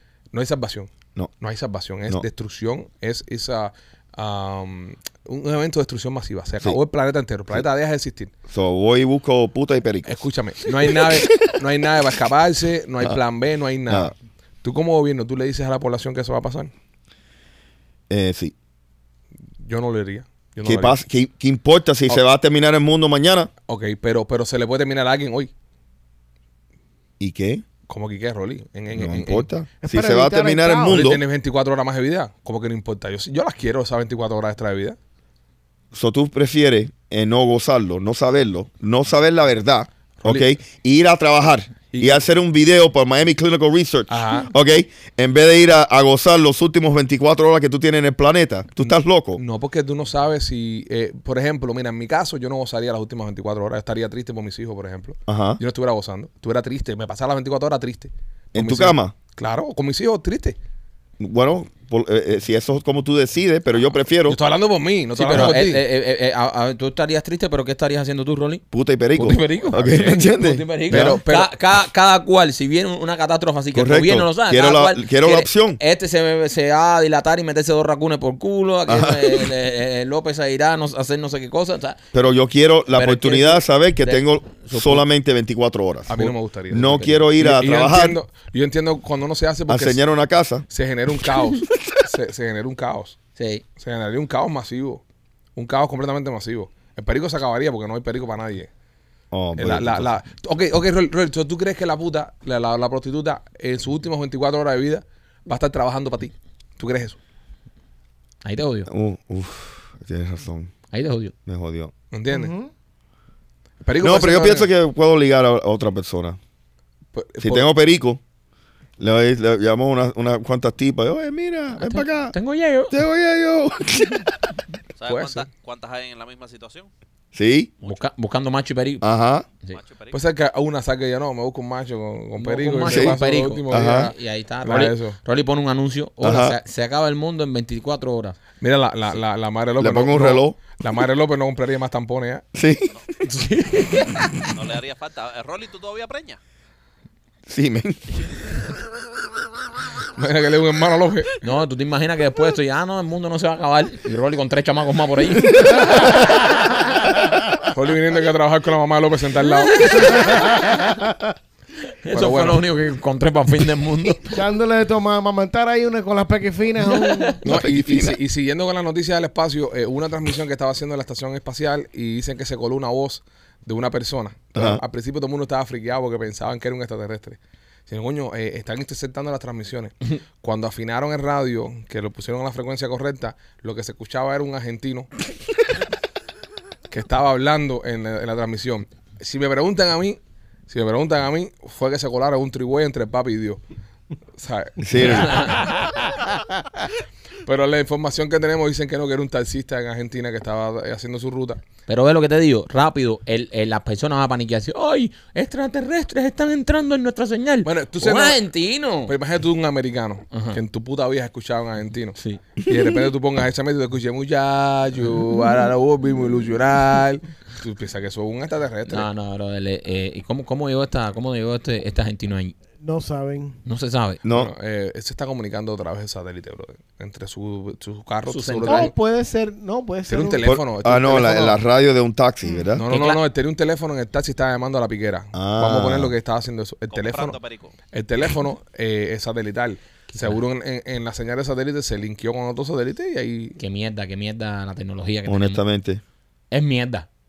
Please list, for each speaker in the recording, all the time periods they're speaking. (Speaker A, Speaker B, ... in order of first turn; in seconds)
Speaker A: 0.3-8.3, 10.1-16.7, 19.6-20.9, 23.7-25.5, 27.9-29.5, 30.9-35.0, 40.2-40.5, 41.9-42.2, 44.1-44.5, 48.8-60.6, 64.3-65.8, 70.9-71.5, 86.1-90.0, 90.7-93.2, 93.8-95.0, 95.5-98.7, 99.5-107.2, 112.1-112.5, 113.8-114.7, 117.1-117.7, 125.1-125.5, 130.1-135.2, 138.6-142.4, 150.2-151.4, 157.7-160.3, 162.1-162.6, 167.4-185.1, 186.9-193.6, 194.4-195.7, 197.4-201.6, 207.6-208.5, 209.1-219.1, 224.3-228.9, 230.1-231.6, 232.8-237.4, 237.9-243.6
Speaker B: 8.5-10.2, 10.8-11.5, 18.1-18.5, 20.6-23.5, 27.2-27.6, 28.9-31.2, 35.9-49.4, 55.3-55.6, 58.5-59.1, 61.2-64.4, 65.3-65.6, 68.7-71.2, 73.7-75.8, 78.9-79.5, 82.1-88.2, 89.7-90.7, 99.3-100.2, 108.9-110.7, 111.5-111.9, 114.0-116.4, 117.4-118.2, 119.0-122.3, 122.9-124.3, 127.3-127.7, 129.0-129.4, 132.8-133.2, 133.7-134.1, 136.2-136.6, 139.8-140.6, 142.6-142.9, 147.5-148.3, 167.4-168.2, 174.6-174.8, 194.8-195.5, 224.2-224.5, 230.4-232.8, 235.3-236.1, 245.3-246.0
Speaker C: 29.8-31.1, 112.3-112.7, 160.3-161.2, 164.3-167.4, 222.8-223.6, 228.7-230.4
Speaker D: 65.2-68.6, 69.2-82.0, 82.9-85.0, 93.4-93.6, 108.4-108.9, 110.9-111.3, 121.8-123.0, 127.8-129.0, 132.4-138.4, 143.2-144.5, 151.4-156.9, 159.7-160.3, 162.0-164.4, 166.9-167.4, 195.1-195.8, 201.9-209.1, 210.3-210.6, 218.9-222.6, 223.7-224.2, 228.3-228.9, 232.9-233.2, 240.1-240.4, 243.6-245.6, 246.5-247.1
Speaker E: 125.0-126.9, 129.7-130.2, 144.5-146.4, 236.9-237.7